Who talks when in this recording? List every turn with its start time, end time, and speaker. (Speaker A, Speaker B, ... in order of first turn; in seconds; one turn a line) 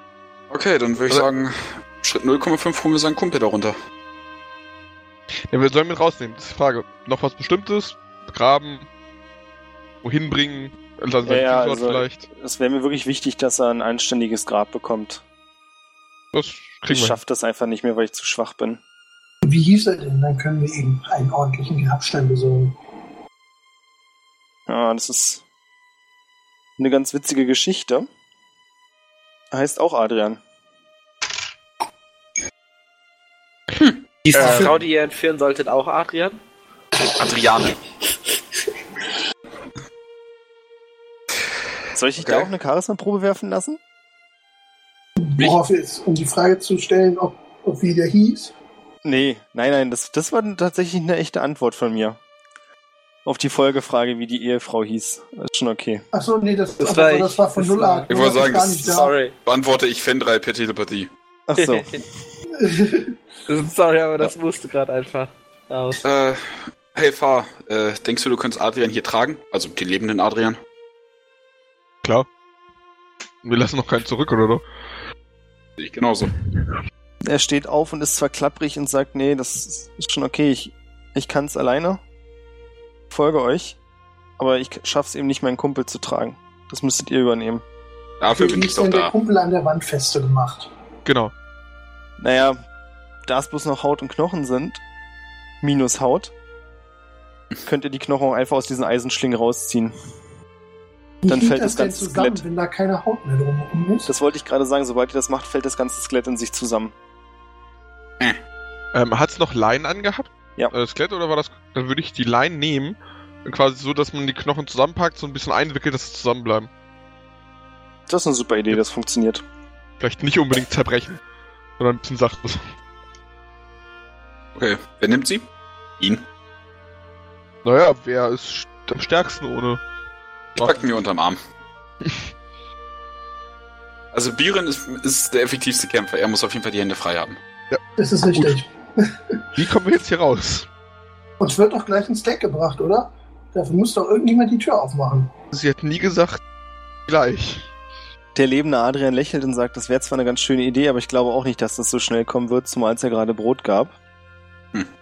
Speaker A: 0.5-3.8
Speaker B: 5.5-8.9
Speaker B: 10.0-12.3
Speaker C: 11.2-15.2
Speaker B: 16.3-17.2
Speaker C: 16.9-18.8
Speaker D: 19.4-22.8
Speaker C: 24.7-25.4
Speaker C: 26.8-28.1
Speaker C: 29.5-30.4
Speaker E: 34.3-36.4
Speaker B: 34.3-34.8
Speaker A: 37.2-37.8
Speaker C: 41.9-43.8
Speaker A: 42.2-42.5
Speaker D: 45.2-48.5
Speaker C: 49.0-52.2
Speaker C: 53.2-56.0
Speaker D: 56.1-59.2
Speaker E: 56.8-58.1
Speaker A: 58.1-58.9
Speaker E: 58.8-59.3
Speaker A: 59.5-61.1
Speaker C: 61.5-62.0
Speaker E: 61.5-62.0
Speaker D: 62.6-63.2
Speaker E: 63.5-66.0
Speaker A: 66.0-70.6
Speaker B: 73.4-74.7
Speaker A: 75.8-76.3
Speaker C: 77.2-82.0
Speaker C: 83.1-83.8
Speaker C: 84.4-87.6
Speaker A: 88.2-89.1
Speaker D: 88.3-90.7
Speaker B: 91.1-91.3
Speaker C: 92.2-92.6
Speaker C: 93.3-94.8
Speaker C: 95.6-96.3
Speaker C: 97.7-99.9
Speaker D: 101.2-104.1
Speaker C: 101.3-102.4
Speaker C: 104.1-106.9
Speaker B: 108.9-116.7
Speaker C: 118.1-119.4
Speaker B: 120.0-121.2
Speaker B: 121.8-122.6
Speaker A: 124.6-125.5
Speaker B: 127.6-129.8
Speaker B: 130.6-130.8
Speaker A: 130.6-131.4
Speaker A: 134.1-137.4
Speaker B: 137.7-138.6
Speaker D: 138.0-139.4
Speaker B: 139.6-140.7
Speaker D: 141.4-145.3
Speaker B: 145.5-146.4
Speaker B: 147.1-147.7
Speaker C: 148.3-153.9